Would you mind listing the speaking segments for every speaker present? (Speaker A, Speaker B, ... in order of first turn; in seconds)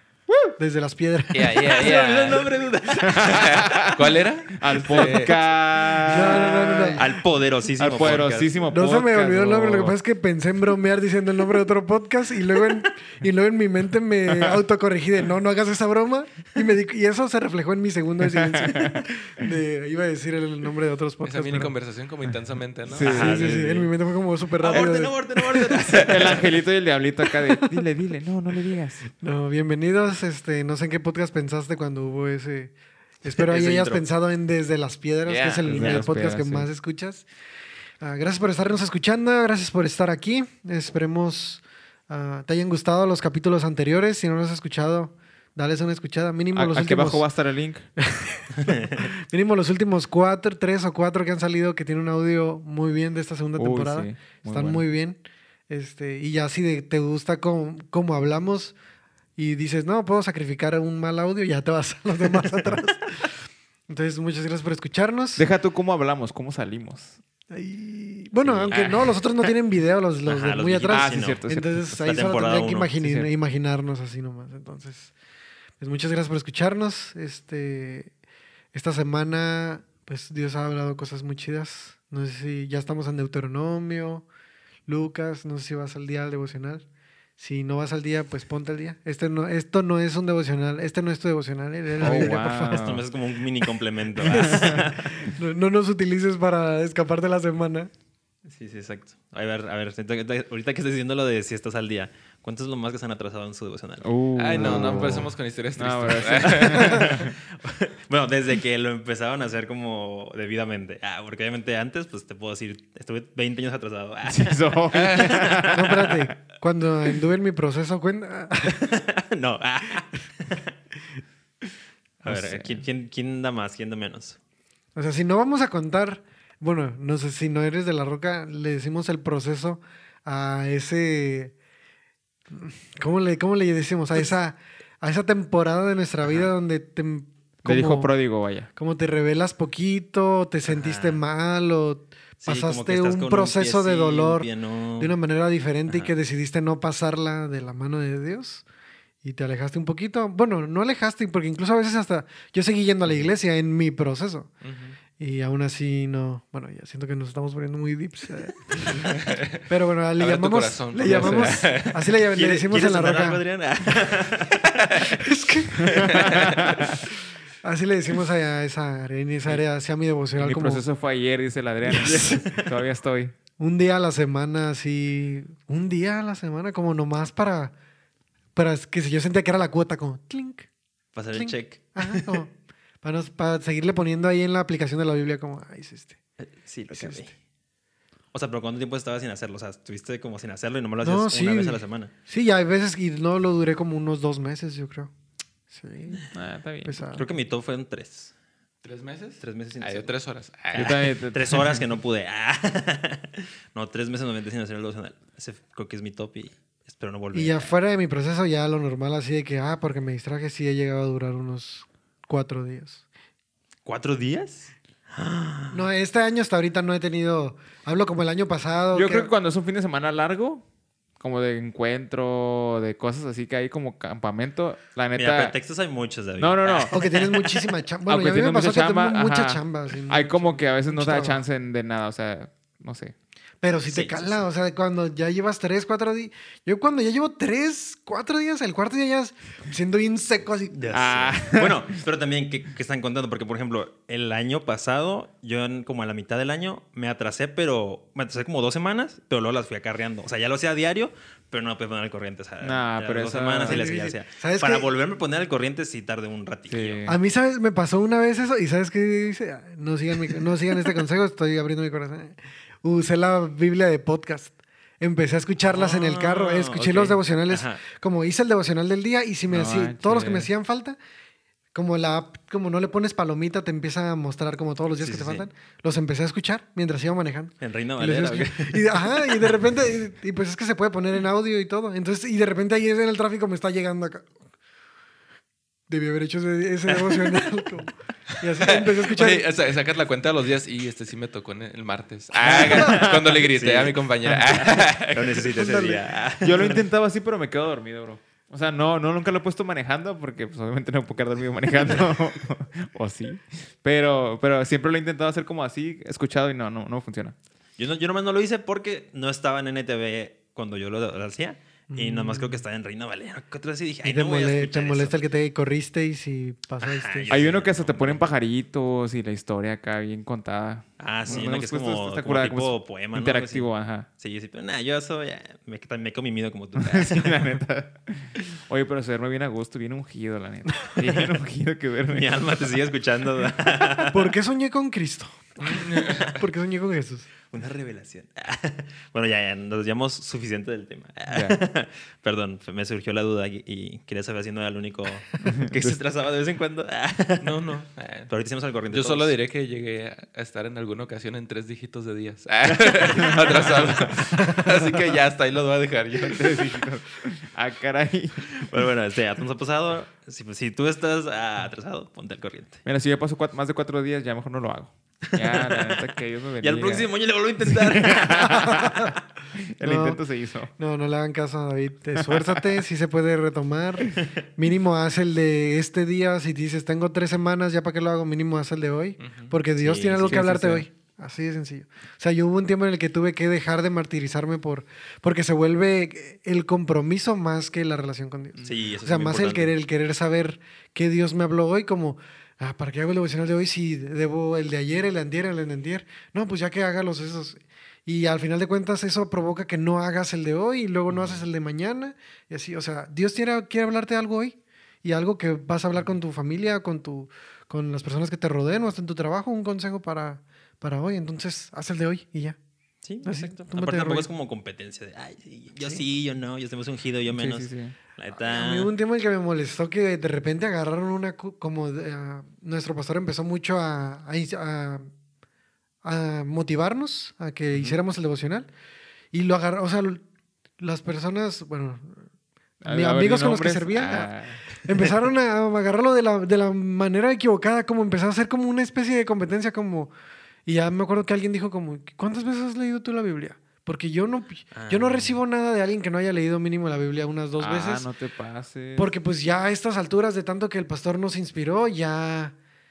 Speaker A: 0.6-1.9, 6.1-7.0, 8.7-21.7, 23.0-26.4, 27.3-27.7, 29.2-37.3, 38.0-47.2, 48.1-58.8, 59.4-65.5, 67.5-75.1, 75.8-78.1, 78.7-84.2, 84.9-86.8, 87.4-92.9, 94.2-97.9, 115.7-118.8, 125.0-131.5, 132.5-138.1, 138.8-148.6, 149.2-154.5, 155.2-163.4, 165.1-166.7, 167.6-170.8, 171.9-172.5, 173.6-177.7, 178.5-180.7, 181.3-186.2, 186.9-187.3, 191.0-195.1, 195.7-196.2, 196.8-197.2, 207.3-213.0, 215.7-219.3, 226.9-231.4, 233.6-240.8, 253.7-254.9, 257.1-271.0, 271.7-284.3, 285.9-289.5, 295.5-296.0, 311.9-312.6, 314.0-317.5, 334.1-337.3, 368.5-369.1, 369.8-370.2, 370.8-412.6, 413.2-414.3, 418.3-425.1, 426.0-428.7, 429.3-430.2, 430.8-432.2, 432.8-440.1, 440.6-448.1, 448.9-452.5
Speaker B: 1.3-2.5, 3.2-5.4, 21.2-23.2, 104.4-107.2, 114.9-115.5, 154.6-155.0, 159.2-159.6, 160.2-162.0, 198.8-201.0, 288.6-295.5, 335.9-336.3, 347.4-348.3, 348.9-356.7, 379.2-379.6
Speaker C: 1.6-3.9, 7.0-8.5, 22.9-23.9, 24.6-26.5, 33.4-34.0, 35.7-36.1, 68.4-69.1, 70.2-73.3, 92.0-95.2, 98.5-105.2, 106.3-116.0, 118.7-120.7, 122.2-124.4, 140.7-141.2, 142.4-145.1, 145.9-146.1, 162.3-165.1, 166.0-166.7, 172.2-172.7, 181.1-182.4, 186.4-187.3, 188.3-192.1, 197.1-198.3, 199.4-200.1, 200.7-207.7, 213.8-215.9, 225.1-227.7, 233.9-234.4, 240.7-257.0, 265.7-267.8, 275.0-275.5, 277.6-279.6, 292.4-296.8, 307.8-315.2, 316.8-318.2, 321.0-327.5, 332.1-334.3, 337.5-347.6, 348.3-349.3, 353.0-354.1, 358.5-362.8, 365.3-366.1, 366.6-369.1, 379.8-380.4, 388.6-389.7, 401.1-401.4, 413.0-418.9, 444.7-445.4
Speaker D: 3.1-3.9, 4.5-7.1, 7.8-9.9, 18.4-19.0, 22.9-23.5, 26.0-29.1, 35.2-36.7, 46.5-47.9, 53.5-54.8, 65.4-67.2, 68.7-69.0, 70.9-71.9, 92.0-93.0, 94.4-94.8, 104.0-107.3, 114.2-116.2, 122.2-122.8, 137.6-138.7, 161.0-161.7, 165.9-167.0, 170.4-173.3, 196.3-197.1, 200.7-201.8, 218.9-220.6, 221.2-225.5, 226.4-227.0, 228.1-233.1, 240.9-241.8, 252.6-253.9, 256.7-257.2, 269.5-270.5, 292.4-293.2, 296.4-307.3, 317.3-324.1, 326.8-332.4, 341.3-341.6, 345.4-346.0, 356.2-358.5, 362.9-367.1, 367.6-369.0, 369.5-370.7, 380.3-380.8, 417.3-417.9, 432.8-434.6, 447.6-449.1